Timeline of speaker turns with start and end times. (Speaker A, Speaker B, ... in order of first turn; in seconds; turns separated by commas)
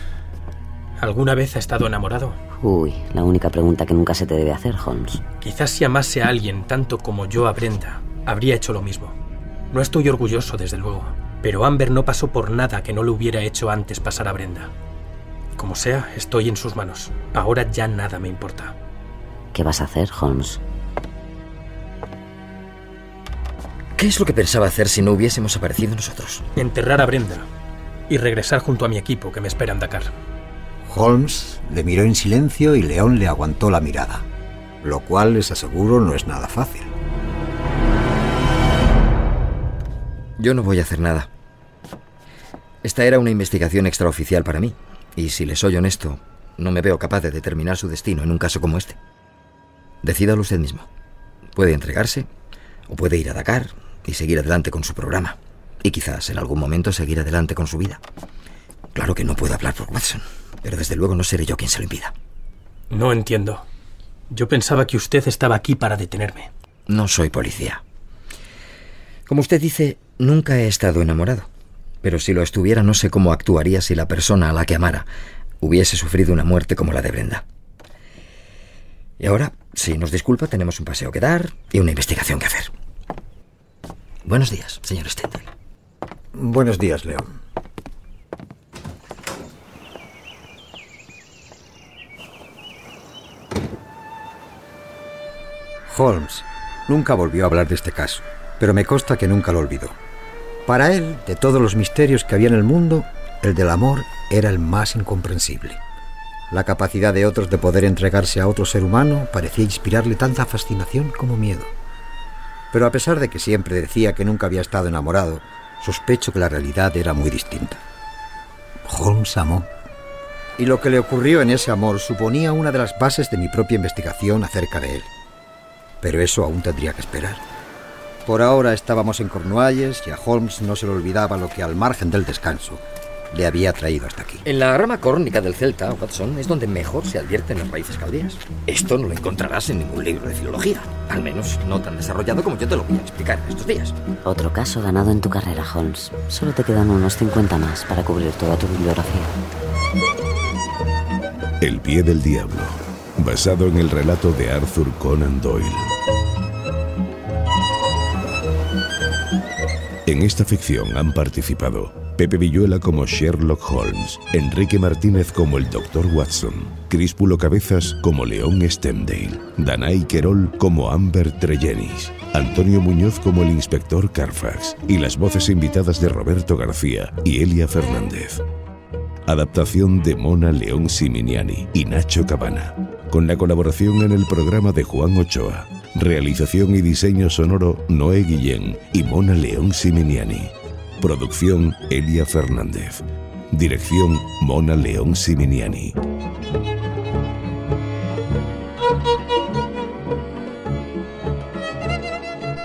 Speaker A: 1.0-2.4, Speaker B: 2.6-5.2, Speaker A: 5.4-9.1, Speaker A: 9.7-14.7, Speaker A: 15.6-18.8, Speaker B: 19.5-20.6, Speaker C: 24.0-26.4, Speaker A: 26.6-27.5, Speaker A: 28.1-30.1, Speaker D: 30.9-34.2, Speaker D: 34.8-36.9, Speaker C: 40.4-41.3, Speaker C: 42.8-49.0, Speaker C: 50.0-50.9, Speaker C: 51.5-52.3, Speaker C: 52.9-58.0, Speaker C: 58.9-62.1, Speaker A: 62.9-63.6, Speaker A: 64.3-66.5, Speaker C: 66.9-67.8, Speaker C: 69.3-71.5, Speaker C: 72.0-75.1, Speaker C: 75.6-77.4, Speaker C: 79.2-82.7, Speaker C: 84.2-85.5, Speaker D: 86.3-87.3, Speaker D: 95.9-99.9, Speaker D: 100.7-105.8, Speaker D: 106.5-111.7, Speaker D: 112.7-117.8, Speaker D: 118.8-119.7, Speaker D: 120.6-125.1, Speaker D: 126.0-127.4, Speaker D: 128.2-134.4, Speaker C: 134.4-143.9, Speaker B: 144.2-149.3, Speaker E: 151.6-155.9, Speaker E: 160.1-178.4, Speaker E: 179.3-195.9